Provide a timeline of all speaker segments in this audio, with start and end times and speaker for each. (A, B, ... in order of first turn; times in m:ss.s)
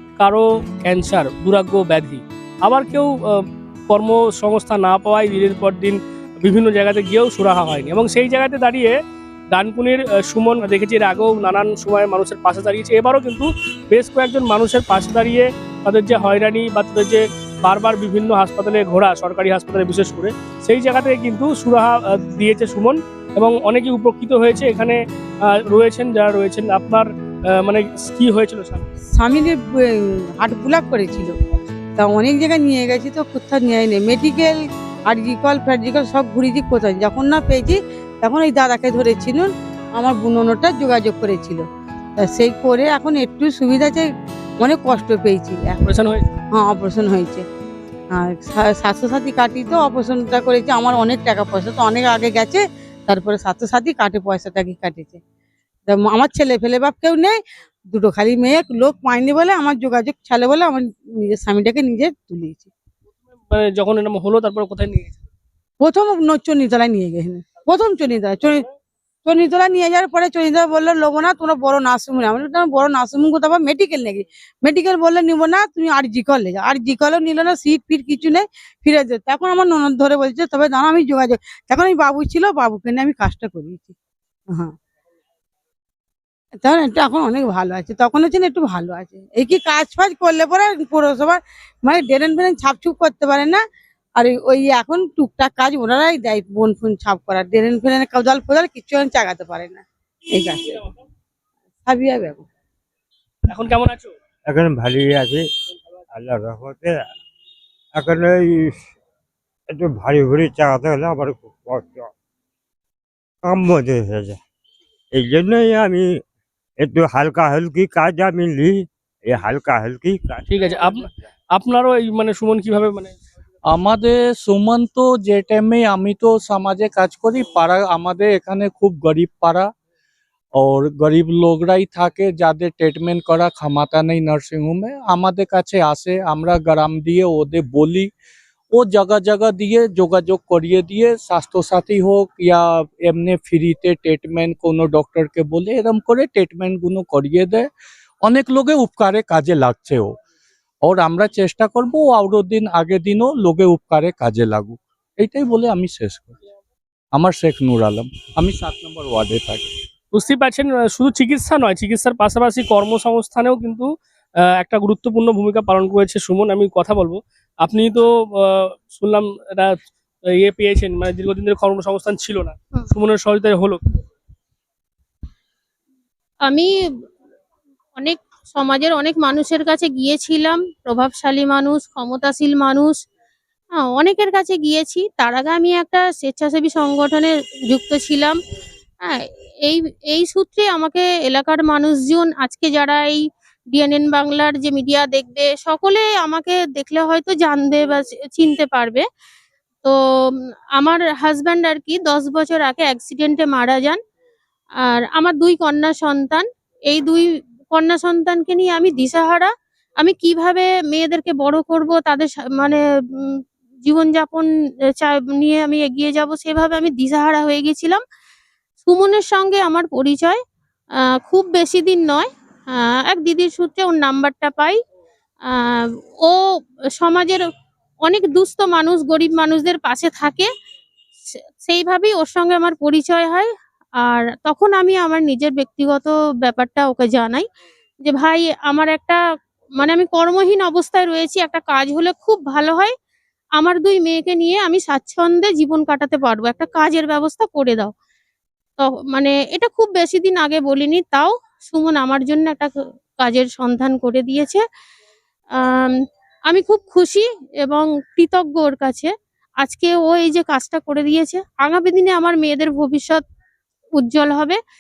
0:00.2-0:09.0 A
0:09.5-0:25.0 A
0:25.7-0:27.1 A
0:27.6-0:28.8 A
0:29.2-0:31.4 B
0:32.0-0:34.6 B
0:35.1-0:41.6 B
0:42.2-0:44.1 B
0:44.6-0:45.9 B
0:45.8-0:46.2 A
0:46.6-0:47.5 B
0:48.2-0:55.2 B
0:55.9-0:57.4 B
0:57.9-1:02.7 B
1:03.5-1:05.2 A
1:05.8-1:08.7 B
1:09.2-1:23.9 B
1:26.6-1:33.6 B
1:34.2-1:40.9 B
1:41.9-1:42.5 B
1:43.5-1:44.1 A
1:44.5-1:45.4 C
1:46.1-1:46.9 C
1:48.0-1:48.8 C
1:49.7-1:52.1 C
1:53.4-1:54.4 C
1:55.1-1:56.1 C
1:56.8-2:01.0 C
2:00.5-2:03.2 A
2:03.8-2:09.7 D
2:10.6-2:18.1 D
2:18.8-2:27.7 D
2:28.3-2:30.2 D
2:30.8-2:36.3 D
2:37.2-2:39.7 D
2:40.1-2:43.9 A
2:44.6-2:49.8 A
2:50.4-2:53.8 A
2:56.4-2:56.7 E
2:58.0-3:03.0 E
3:03.9-3:08.4 E
3:09.0-3:19.1 E
3:19.8-3:24.0 E
3:24.9-3:38.0 E
3:38.8-3:40.4 E
3:41.2-3:44.8 E
3:45.5-3:46.4 E
3:47.0-3:47.4 E
3:48.0-3:50.5 E
3:51.6-3:53.5 E
3:54.0-3:57.4 E
3:58.0-3:59.2 E
3:59.8-4:02.9 E
4:03.6-4:07.9 E
4:08.8-4:14.6 E
4:16.5-4:19.1 E
4:19.6-4:23.2 E
4:24.0-4:24.6 E